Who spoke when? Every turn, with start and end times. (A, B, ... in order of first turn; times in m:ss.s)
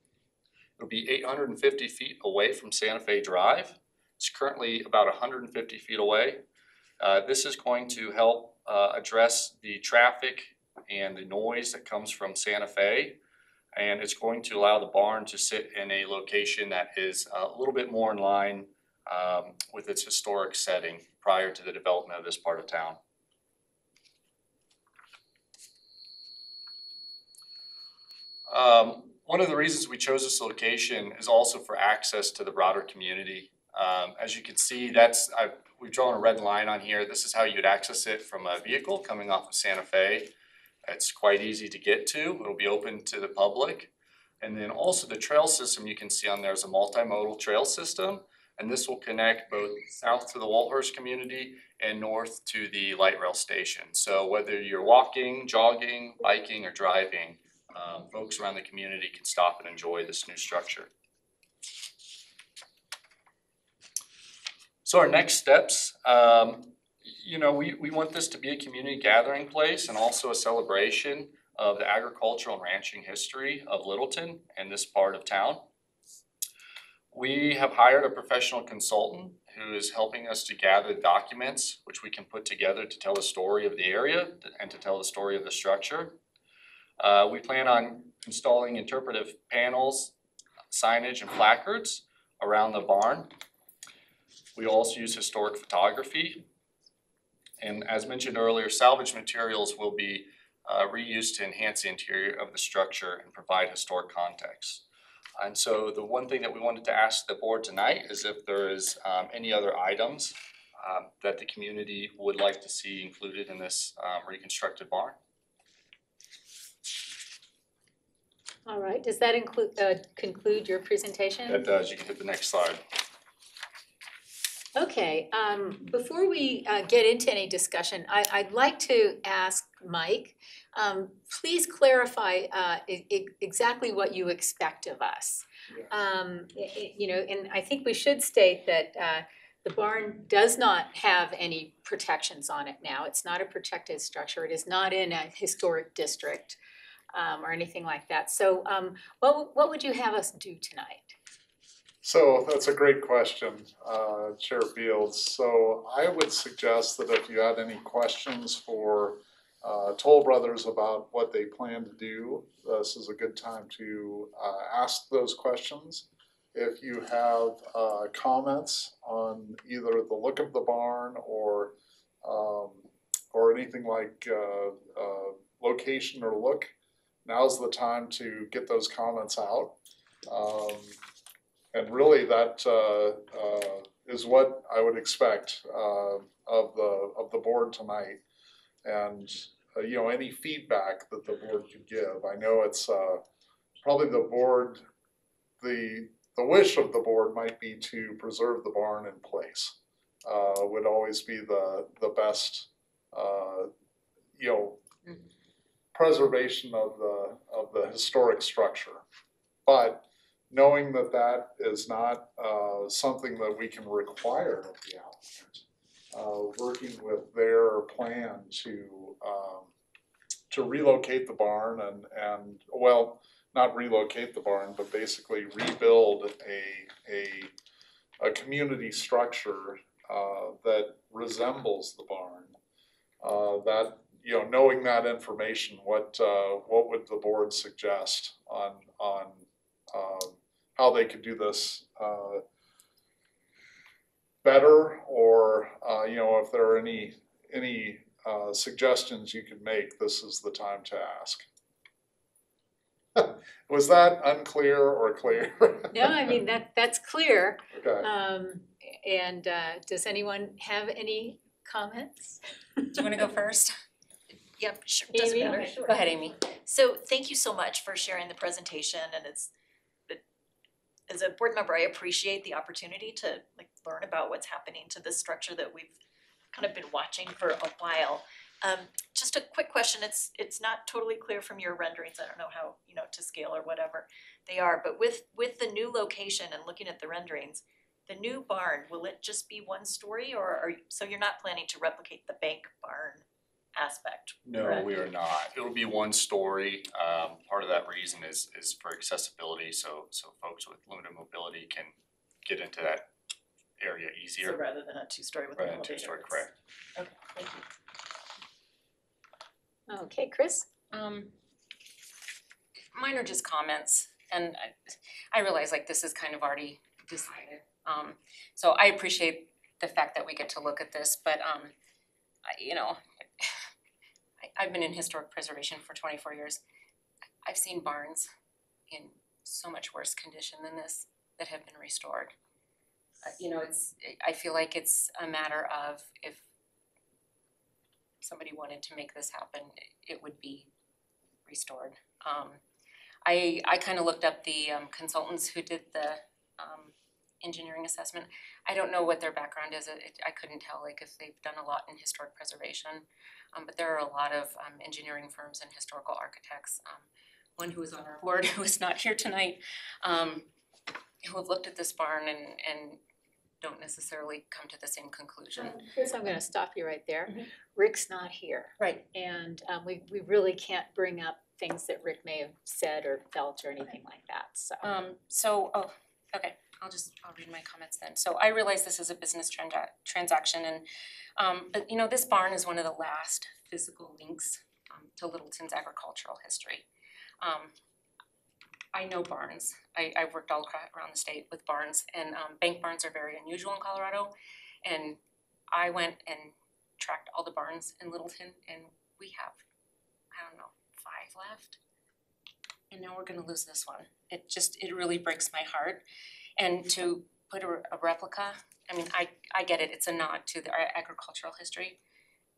0:00.8-0:06.4 A
0:07.0-0:13.2 A
0:13.7-0:23.0 A
0:28.5-0:40.3 A
0:40.8-1:00.9 A
1:04.8-1:15.7 A
1:17.1-1:26.2 A
1:27.0-1:30.1 A
1:30.7-1:33.3 A
1:34.6-1:36.4 A
1:37.6-1:44.8 A
1:45.4-1:55.2 A
1:58.6-2:01.6 B
2:01.5-2:02.8 A
2:04.7-2:26.6 B
2:27.1-2:31.1 B
2:32.0-2:56.7 C
2:57.2-3:01.0 C
3:01.7-3:08.2 C
3:08.8-3:13.2 C
3:13.8-3:14.8 C
3:15.6-3:23.7 C
3:24.4-3:24.8 C
3:25.9-3:29.0 C
3:29.6-3:39.7 C
3:40.5-3:47.5 C
3:48.2-3:52.6 C
3:53.2-4:02.4 C
4:04.4-4:11.4 C
4:13.1-4:16.3 C
4:15.9-4:23.1 B
4:17.7-4:18.1 C
4:22.9-4:23.7 D
4:24.6-4:26.0 E
4:25.1-4:25.9 B
4:25.8-4:26.4 D
4:26.6-4:29.5 E
4:31.1-4:36.0 E
4:36.5-4:55.0 E
4:54.5-5:03.1 A
5:03.8-5:04.6 A
5:04.4-5:07.6 E
5:05.5-5:06.5 A
5:09.9-5:10.7 B
5:10.9-5:11.3 D
5:12.8-5:21.7 D
5:22.5-5:23.6 D
5:24.4-5:26.6 D
5:27.4-5:28.3 D
5:28.9-5:32.3 D
5:33.2-5:36.4 D
5:38.2-5:40.7 D
5:41.4-5:42.6 D
5:43.2-6:00.5 D
6:01.2-6:03.0 D
6:03.6-6:05.8 D
6:05.6-6:14.9 B
6:14.8-6:20.8 D
6:21.4-6:26.8 D
6:27.4-6:27.7 D
6:28.9-6:34.3 D
6:34.8-6:35.2 D
6:35.7-6:39.6 D
6:40.3-6:41.8 D
6:42.9-6:46.0 D
6:46.6-6:52.0 D